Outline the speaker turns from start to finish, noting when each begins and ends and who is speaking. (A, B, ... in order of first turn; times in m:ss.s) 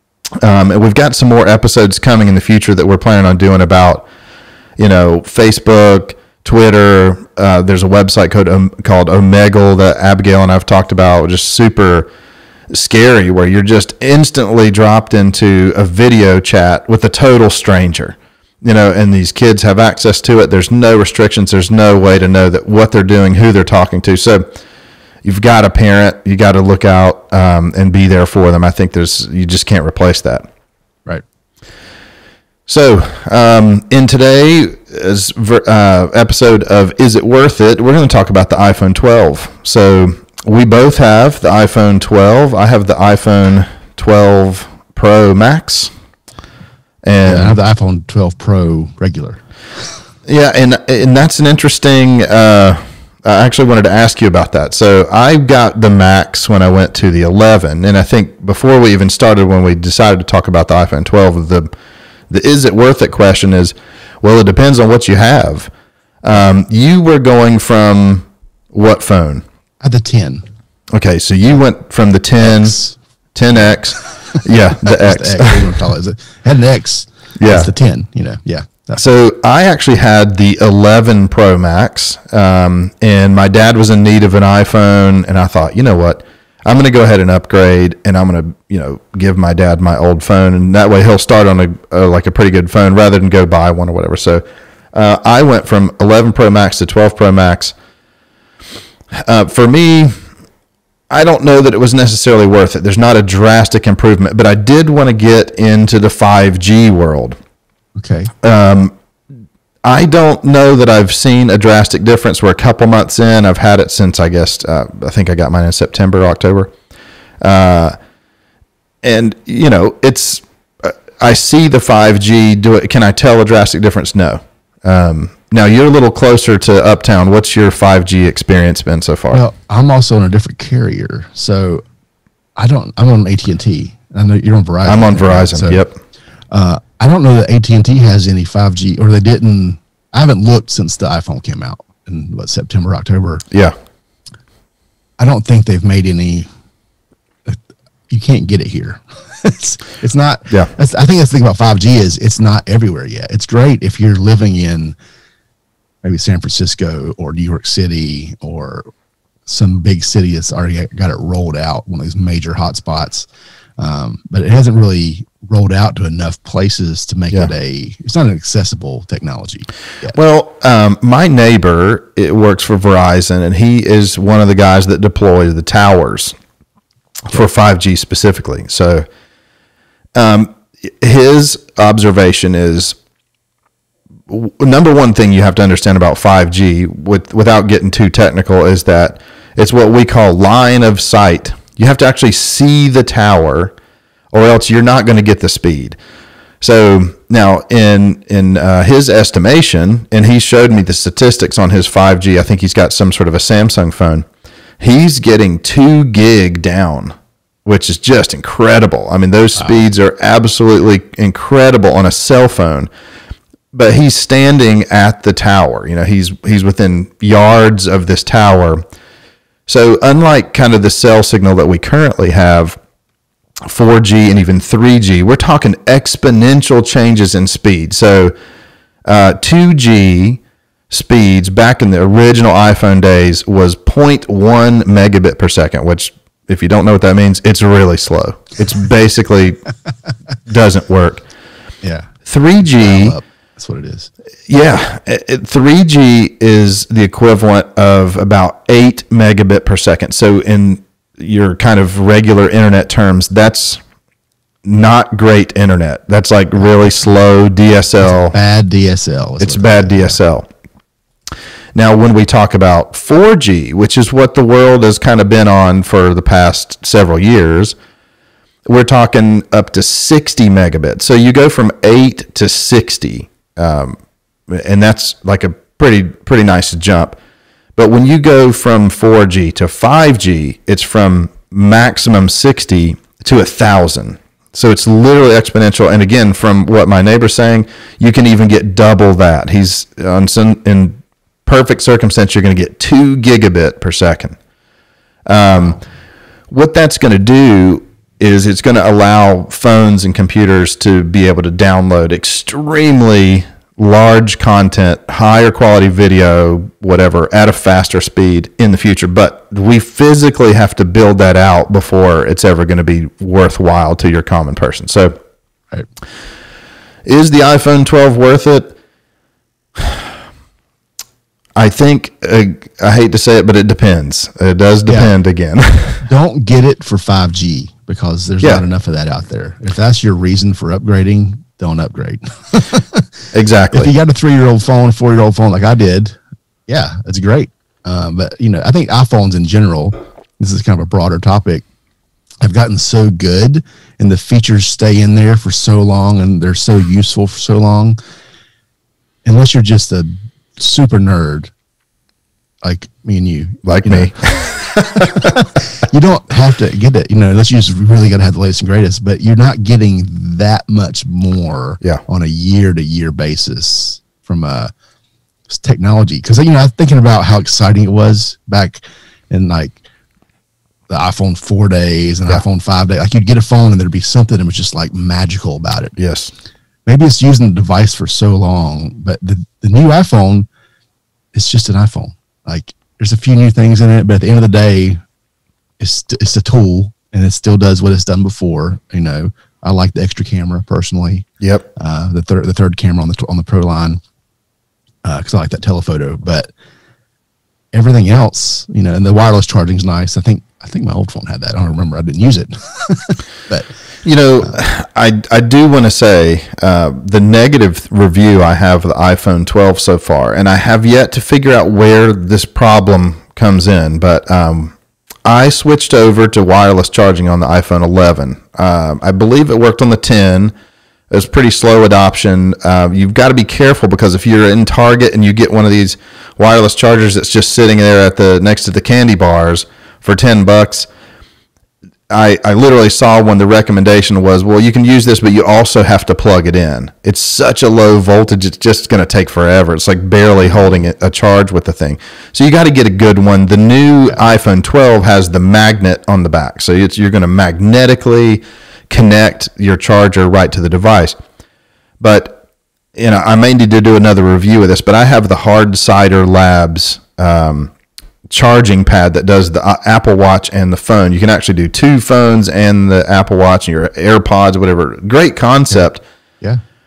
0:00.4-0:04.1 A
0:04.8-0:12.1 A
0:12.7-0:24.5 A
0:25.2-0:30.5 A
0:32.7-0:45.9 A
0:47.0-0:47.6 A
0:47.2-0:49.4 B
0:50.3-1:01.7 A
1:02.3-1:05.7 A
1:06.2-1:09.4 A
1:09.8-1:10.5 B
1:10.9-1:12.8 A
1:12.4-1:13.0 B
1:13.4-1:15.6 A
1:14.3-1:19.0 B
1:17.4-1:17.7 A
1:19.0-1:34.4 A
1:34.9-1:37.8 A
1:39.1-1:40.1 A
1:41.1-1:47.4 A
1:48.0-1:48.3 B
1:48.4-1:48.9 A
1:49.8-1:56.7 A
1:57.4-1:58.0 A
1:59.0-2:09.4 A
2:09.3-2:11.8 B
2:12.6-2:15.8 B
2:14.9-2:16.0 A
2:16.5-2:23.4 B
2:25.2-2:26.5 B
2:27.5-2:35.0 B
2:36.0-2:38.9 B
2:39.5-2:43.3 B
2:43.8-2:50.2 B
2:50.1-2:56.3 A
2:57.3-2:59.0 A
3:00.2-3:03.0 A
3:04.3-3:13.8 A
3:14.3-3:16.0 A
3:16.6-3:24.2 A
3:24.8-3:27.1 A
3:27.6-3:32.9 A
3:33.7-3:38.8 A
3:39.7-3:42.8 A
3:43.7-3:48.3 A
3:49.1-3:59.6 A
4:00.5-4:01.2 A
4:01.8-4:04.1 B
4:02.3-4:03.2 A
4:04.5-4:13.8 A
4:14.6-4:18.3 A
4:18.0-4:20.2 B
4:19.4-4:20.5 A
4:21.8-4:27.8 A
4:28.7-4:34.0 A
4:34.5-4:37.2 A
4:37.8-4:54.4 A
4:55.3-4:55.8 A
4:56.5-5:15.2 A
5:17.1-5:18.8 A
5:21.6-5:26.0 A
5:24.9-5:25.1 B
5:26.0-5:33.1 B
5:33.3-5:33.9 A
5:33.7-5:41.6 B
5:42.4-5:48.0 B
5:49.3-5:51.5 B
5:52.6-5:54.2 B
5:53.6-5:55.3 A
5:54.9-6:04.7 B
6:05.5-6:09.8 B
6:10.9-6:16.0 B
6:16.0-6:16.3 A
6:16.9-6:20.5 B
6:21.3-6:25.0 B
6:25.8-6:34.0 B
6:31.4-6:31.7 A
6:35.0-6:36.5 B
6:37.7-6:43.7 B
6:44.0-7:00.5 A
7:01.1-7:10.9 A
7:12.1-7:31.2 A
7:32.0-7:32.4 A
7:33.0-7:37.7 A
7:38.3-7:46.0 A